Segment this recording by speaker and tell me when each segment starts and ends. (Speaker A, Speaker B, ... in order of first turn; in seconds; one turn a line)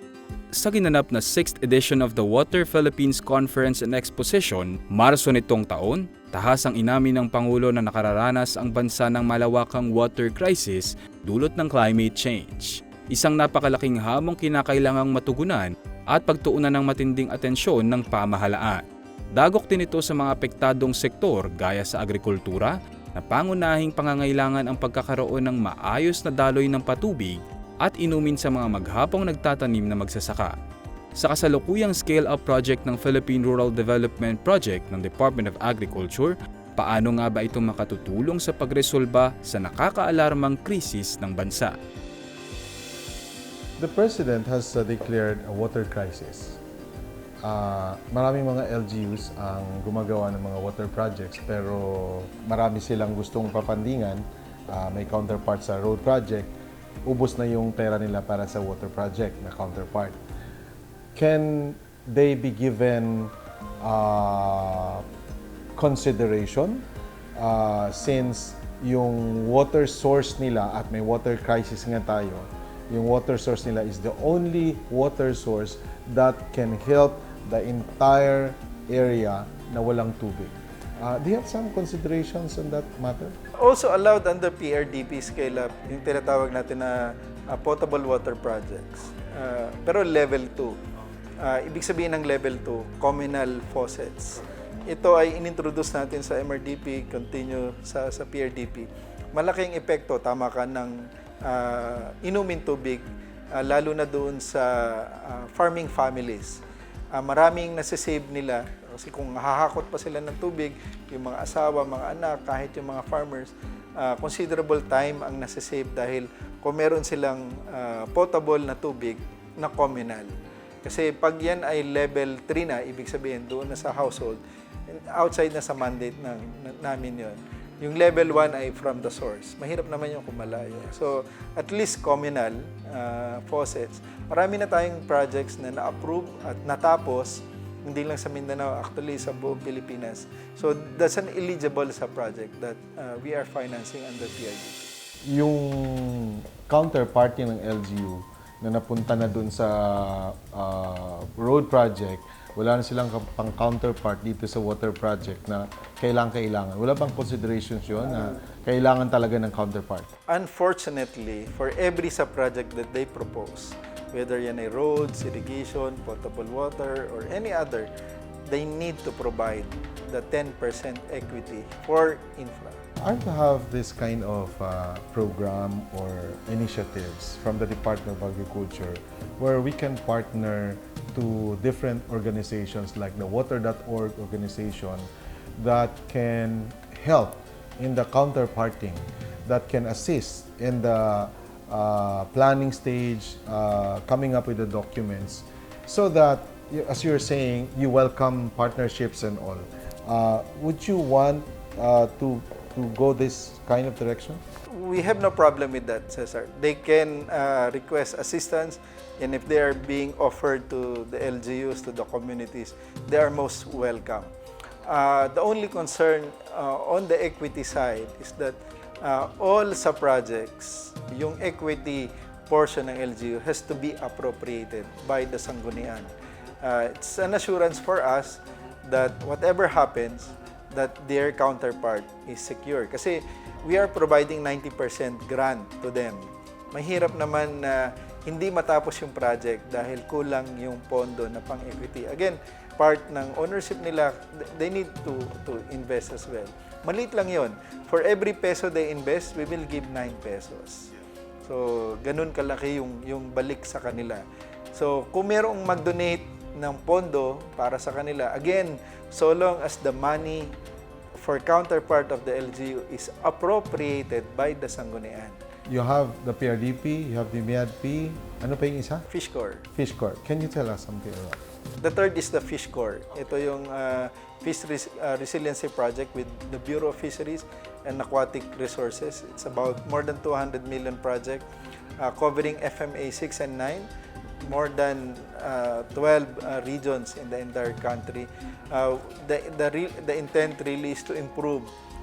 Speaker A: 0.5-18.8
Speaker A: 19.4-30.6
Speaker A: 31.2-41.8
Speaker B: 43.8-46.6
Speaker B: 47.4-56.5
Speaker B: 57.0-60.2
Speaker B: 61.1-65.0
Speaker B: 65.8-66.8
Speaker B: 67.4-83.3
Speaker C: 83.6-90.8
Speaker C: 91.4-106.6
Speaker C: 107.1-120.3
Speaker C: 120.8-144.9
Speaker B: 145.3-160.1
Speaker C: 160.3-167.9
Speaker C: 168.5-172.8
Speaker B: 173.0-204.4
Speaker C: 204.7-214.3
Speaker C: 214.9-250.9
Speaker C: 251.4-254.2
Speaker C: 254.7-260.6
Speaker C: 261.2-265.4
Speaker B: 265.7-269.1
Speaker C: 269.1-269.7
Speaker B: 269.7-271.4
Speaker C: 271.8-281.5
Speaker C: 282.0-283.9
Speaker C: 284.4-291.7